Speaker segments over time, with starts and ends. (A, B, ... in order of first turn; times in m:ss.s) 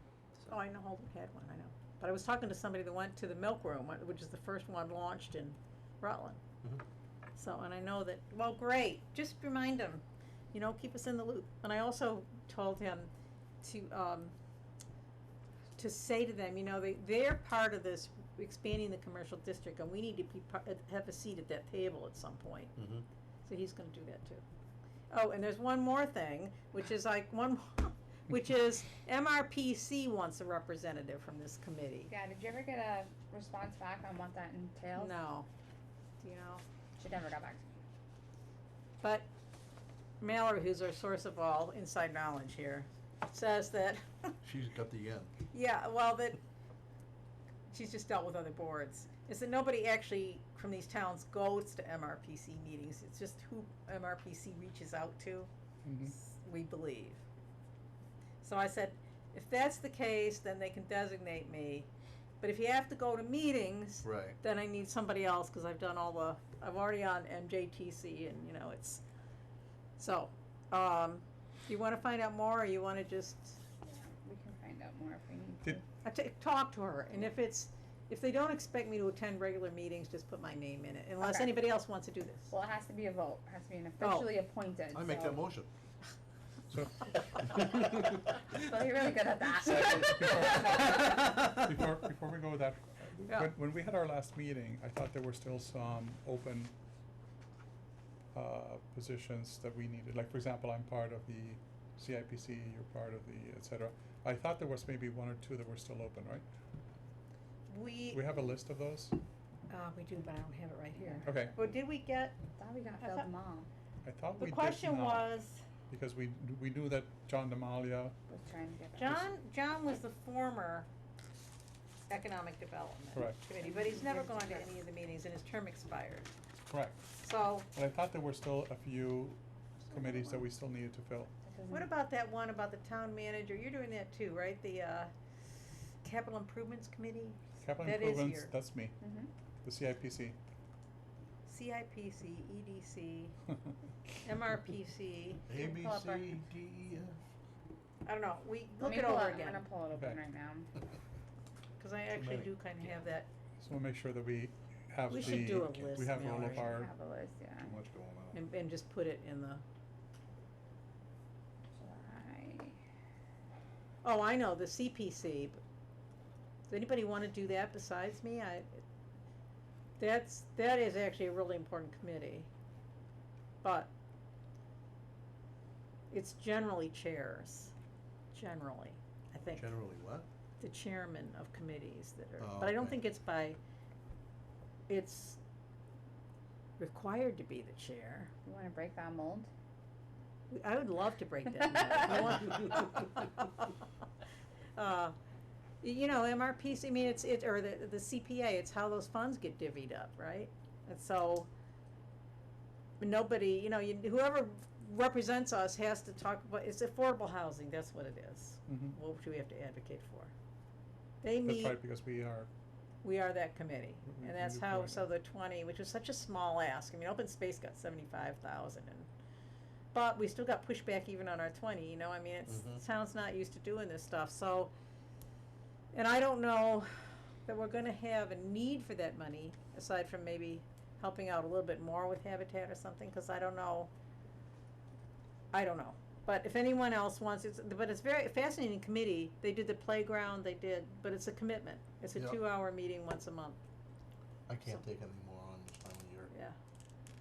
0:00.5-0:06.4 A
0:07.4-0:13.1 A
0:13.6-0:14.3 A
0:15.8-0:22.8 A
0:22.8-0:23.0 B
0:23.4-0:24.4 A
0:25.1-0:32.1 A
0:32.1-0:35.2 C
0:34.9-0:35.5 A
0:36.2-0:36.6 A
0:37.0-0:37.6 C
0:39.0-0:39.3 A
0:40.2-0:44.3 A
0:44.4-0:45.3 B
0:45.5-0:46.4 A
0:47.7-0:55.5 A
0:55.9-0:56.1 D
0:56.0-0:57.2 A
0:58.4-1:01.9 A
1:02.4-1:09.0 A
1:04.0-1:04.4 B
1:10.0-1:13.6 A
1:13.8-1:15.8 C
1:16.0-1:22.5 A
1:21.2-1:21.6 C
1:22.5-1:25.5 C
1:24.0-1:24.3 A
1:24.9-1:25.7 B
1:26.7-1:27.4 D
1:28.2-1:30.9 C
1:29.5-1:36.7 D
1:33.3-1:33.5 A
1:38.3-1:46.4 D
1:47.7-1:48.3 A
1:48.1-1:49.2 D
1:49.7-1:52.4 A
1:51.0-1:51.4 C
1:51.2-1:51.6 D
1:52.6-1:53.7 C
1:53.0-1:53.3 A
1:54.0-1:55.3 D
1:54.3-1:55.7 A
1:55.9-1:58.2 D
1:58.3-1:59.3 C
1:59.0-2:00.9 A
2:02.1-2:06.3 A
2:03.1-2:03.5 D
2:03.6-2:04.8 C
2:06.7-2:07.0 D
2:07.2-2:07.7 A
2:07.7-2:11.3 D
2:09.8-2:10.4 A
2:11.4-2:11.9 C
2:11.7-2:18.6 A
2:17.6-2:19.0 D
2:19.0-2:19.3 C
2:19.6-2:20.4 D
2:21.5-2:23.4 A
2:24.2-2:25.5 A
2:25.5-2:27.2 B
2:25.5-2:26.4 C
2:28.0-2:29.7 A
2:28.8-2:30.7 C
2:29.9-2:30.2 D
2:31.8-2:33.3 A
2:32.1-2:32.6 B
2:33.6-2:36.9 D
2:35.1-2:36.8 A
2:36.4-2:37.8 C
2:37.6-2:38.4 B
2:38.3-2:39.6 A
2:41.8-2:42.8 C
2:44.0-2:45.6 A
2:46.7-2:48.8 A
2:50.0-2:52.5 A
2:53.6-2:53.9 A
2:56.1-2:57.7 A
2:58.3-2:59.8 A
2:59.5-3:00.3 B
3:00.6-3:03.6 A
3:02.4-3:03.0 B
3:04.9-3:05.4 A
3:06.8-3:08.3 A
3:08.4-3:09.5 C
3:10.5-3:13.7 A
3:14.8-3:15.2 A
3:15.8-3:21.5 A
3:23.0-3:30.3 A
3:28.7-3:29.0 D
3:31.2-3:31.8 A
3:31.4-3:32.5 D
3:33.0-3:39.1 A
3:34.1-3:35.1 D
3:39.9-3:44.7 A
3:42.5-3:42.8 B
3:45.9-3:53.9 A
3:55.5-4:03.6 A
4:02.2-4:02.4 B
4:04.5-4:06.3 B
4:06.3-4:06.6 A